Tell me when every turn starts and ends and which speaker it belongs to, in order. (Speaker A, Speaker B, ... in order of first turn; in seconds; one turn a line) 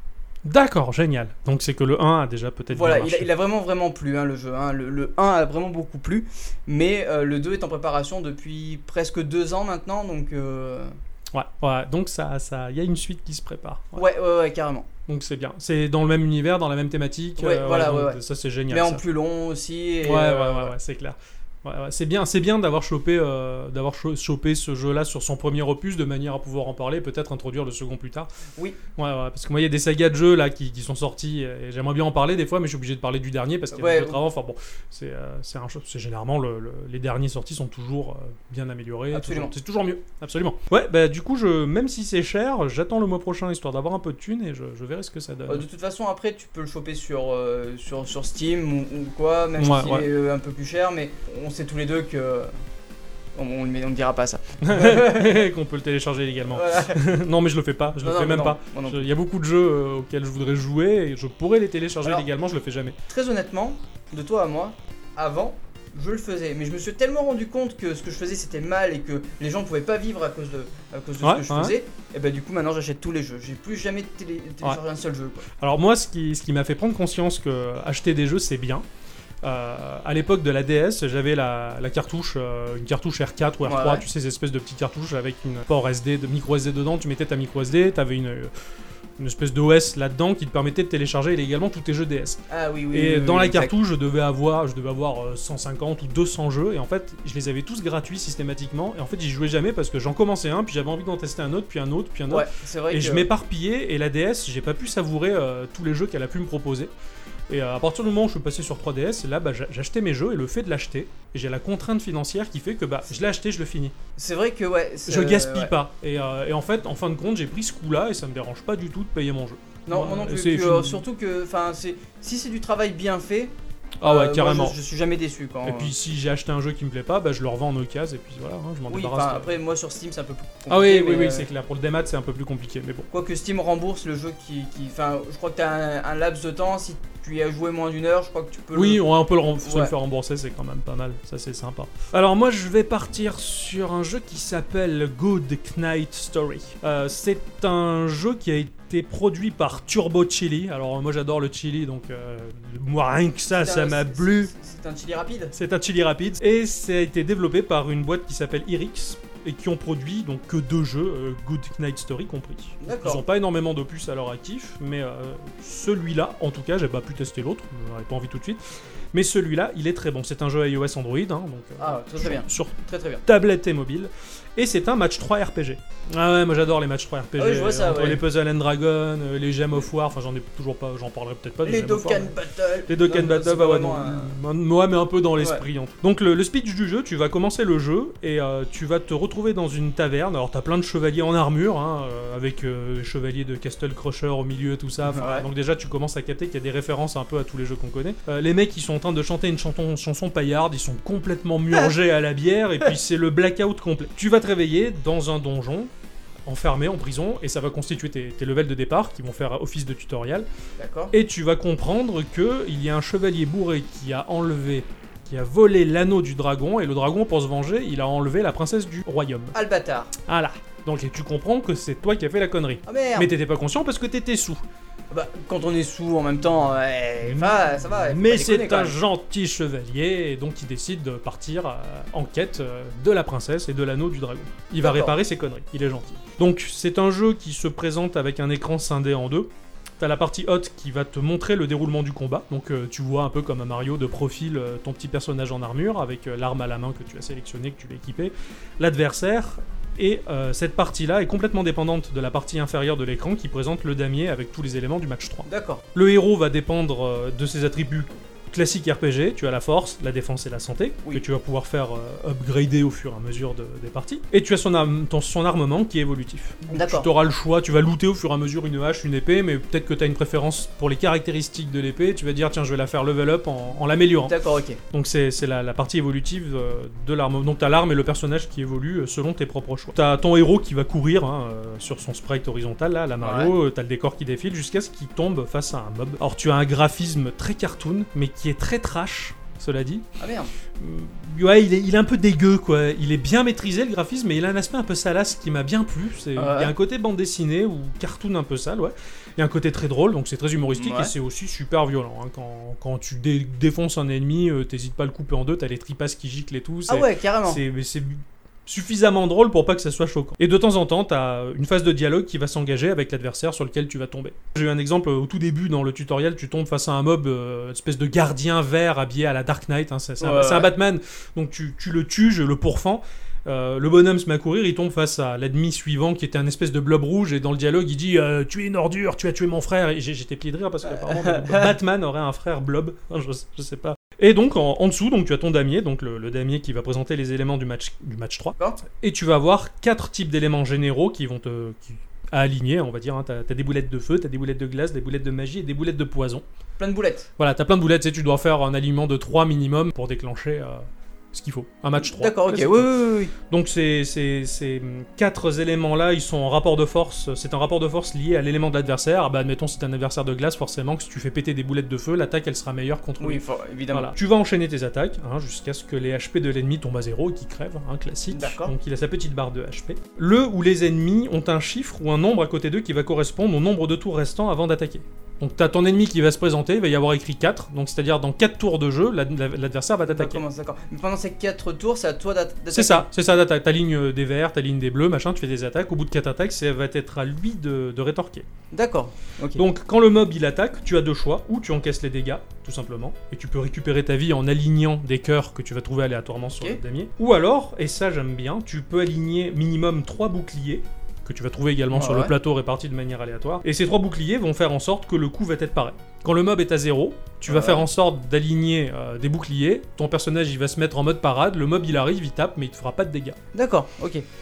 Speaker A: 0.5-3.3
Speaker B: 2.7-11.0
Speaker A: 11.3-14.0
Speaker B: 14.0-14.9
Speaker A: 15.1-19.0
Speaker B: 17.4-18.2
Speaker B: 18.7-20.7
Speaker A: 20.0-28.3
Speaker A: 29.0-45.6
Speaker B: 33.7-34.2
Speaker B: 39.1-39.5
Speaker B: 45.5-52.5
Speaker A: 49.6-50.1
Speaker B: 53.4-55.5
Speaker A: 54.6-63.0
Speaker B: 56.5-57.0
Speaker B: 58.0-59.1
Speaker B: 63.1-75.5
Speaker A: 71.2-71.8
Speaker A: 75.6-78.8
Speaker A: 79.4-88.5
Speaker B: 83.6-84.1
Speaker A: 89.2-92.4
Speaker B: 92.5-93.7
Speaker A: 92.9-106.9
Speaker B: 102.3-103.3
Speaker A: 107.5-114.0
Speaker B: 114.2-115.7
Speaker A: 115.1-121.0
Speaker B: 119.9-125.9
Speaker A: 124.0-124.8
Speaker A: 125.6-129.5
Speaker B: 128.9-131.5
Speaker A: 130.7-133.1
Speaker B: 133.1-139.0
Speaker A: 138.7-154.5
Speaker B: 139.6-139.9
Speaker B: 153.5-155.5
Speaker A: 155.5-168.6
Speaker B: 162.8-163.2
Speaker A: 169.1-182.3
Speaker B: 171.8-173.2
Speaker B: 177.4-178.2
Speaker B: 181.6-184.4
Speaker A: 182.9-205.9
Speaker B: 185.4-185.6
Speaker B: 195.1-195.5
Speaker A: 206.5-210.5
Speaker B: 210.8-211.1
Speaker A: 211.1-219.6
Speaker B: 219.5-220.1
Speaker A: 220.2-224.6
Speaker B: 222.9-223.3
Speaker B: 225.1-229.0
Speaker A: 227.2-274.4
Speaker B: 234.8-235.1
Speaker B: 255.5-255.8
Speaker B: 266.7-267.1
Speaker B: 274.2-274.8
Speaker A: 274.9-290.1
Speaker B: 283.2-283.5
Speaker B: 290.2-290.5
Speaker A: 290.8-346.4
Speaker B: 296.4-296.7
Speaker B: 300.7-301.1
Speaker B: 306.9-307.6
Speaker B: 320.2-320.7
Speaker B: 330.9-331.7
Speaker B: 346.8-347.3
Speaker A: 347.4-380.4
Speaker B: 352.0-353.3
Speaker B: 363.2-364.1
Speaker B: 368.3-368.7
Speaker B: 380.1-383.1
Speaker A: 382.7-388.5
Speaker B: 388.7-389.6
Speaker A: 389.6-413.4
Speaker B: 401.9-402.3
Speaker B: 407.5-407.9
Speaker B: 413.5-414.2